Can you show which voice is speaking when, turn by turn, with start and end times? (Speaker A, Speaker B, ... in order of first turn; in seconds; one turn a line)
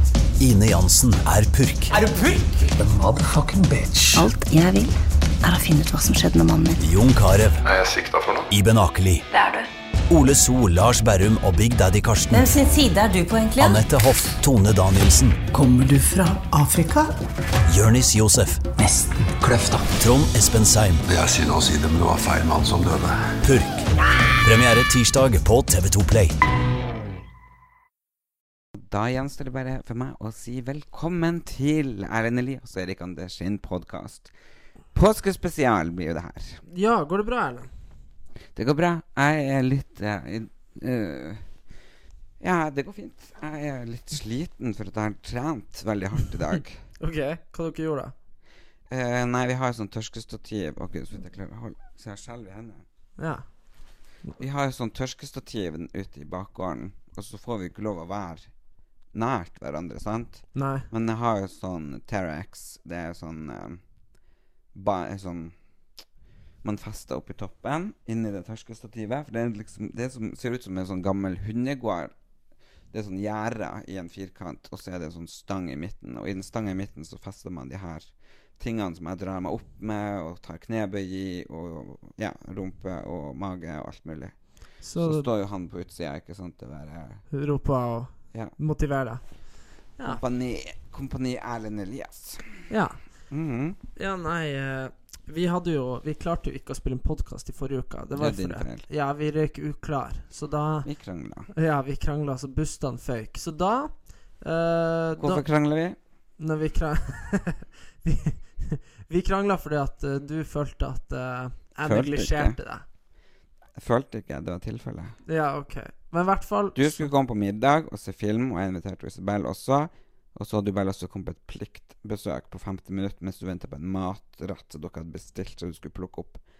Speaker A: 0.4-2.0
Speaker B: 2.8-4.3
Speaker C: 4.2-4.9
Speaker D: 4.2-4.6
Speaker C: 5.4-6.8
Speaker D: 5.5-6.7
Speaker A: 6.8-7.6
Speaker E: 7.6-8.5
Speaker A: 8.5-9.3
Speaker D: 9.3-9.6
Speaker A: 10.1-12.5
Speaker D: 12.3-13.8
Speaker A: 13.6-15.4
Speaker B: 15.5-17.1
Speaker A: 17.7-18.7
Speaker B: 18.8-19.9
Speaker A: 20.0-21.1
Speaker E: 21.1-23.3
Speaker A: 23.4-23.9
Speaker A: 24.4-26.4
Speaker F: 28.7-34.3
Speaker F: 34.9-36.6
Speaker G: 36.6-37.7
Speaker F: 38.5-41.5
Speaker F: 42.4-46.8
Speaker G: 47.0-48.1
Speaker F: 48.9-52.8
Speaker G: 53.2-53.4
Speaker F: 54.4-58.5
Speaker F: 59.1-63.8
Speaker G: 60.5-60.9
Speaker F: 64.7-65.5
Speaker F: 66.6-72.1
Speaker F: 72.9-84.3
Speaker G: 84.8-85.3
Speaker F: 85.0-87.2
Speaker G: 87.3-89.2
Speaker F: 90.0-92.6
Speaker G: 92.7-93.0
Speaker F: 93.3-93.8
Speaker G: 94.0-100.9
Speaker F: 98.1-98.8
Speaker F: 100.8-101.5
Speaker G: 101.5-105.4
Speaker F: 105.2-106.0
Speaker G: 106.4-112.8
Speaker F: 111.8-112.6
Speaker F: 113.8-115.2
Speaker G: 115.3-117.1
Speaker F: 116.7-126.4